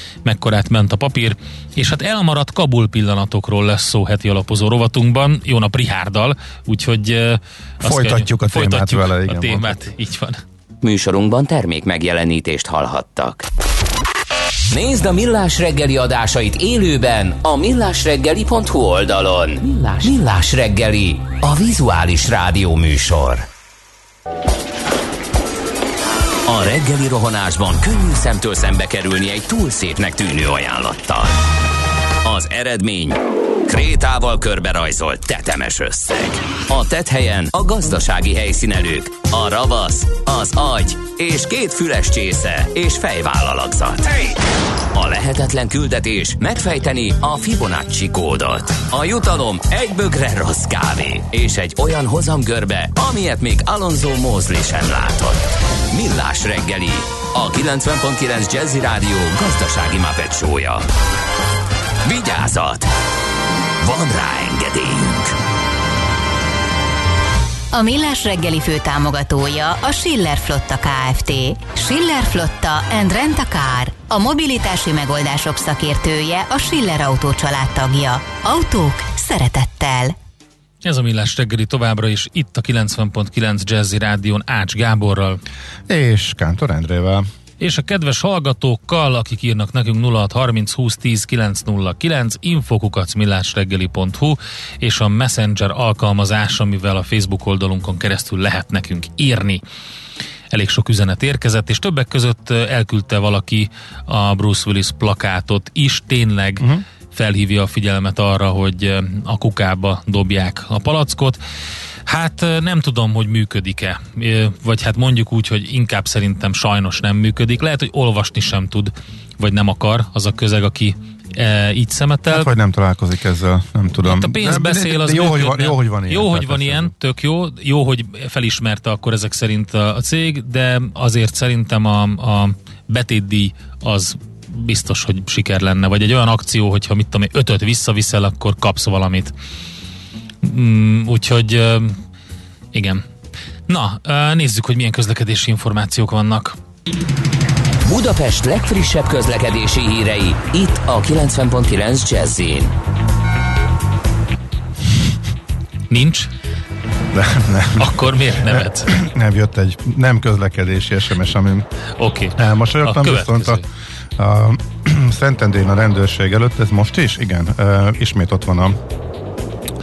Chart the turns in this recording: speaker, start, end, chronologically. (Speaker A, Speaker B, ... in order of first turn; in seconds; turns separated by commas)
Speaker A: 0.2-10.4, Speaker B: 7.8-9.9, Speaker C: 10.8-13.4, Speaker C: 14.7-23.5, Speaker C: 26.5-31.4, Speaker C: 32.2-44.4, Speaker C: 44.9-60.9, Speaker C: 62.0-62.9, Speaker C: 63.8-65.4, Speaker D: 67.7-80.2, Speaker A: 80.8-85.4, Speaker B: 85.9-87.2, Speaker A: 87.6-99.6, Speaker A: 100.5-111.4, Speaker A: 112.1-122.5, Speaker B: 122.3-126.9, Speaker A: 124.0-139.3, Speaker A: 140.4-142.0, Speaker A: 142.7-143.0, Speaker A: 143.7-146.6, Speaker C: 147.9-152.8, Speaker A: 155.9-156.3, Speaker B: 157.1-161.7, Speaker A: 157.8-159.0, Speaker A: 162.0-163.7, Speaker B: 162.4-163.7, Speaker B: 164.2-168.8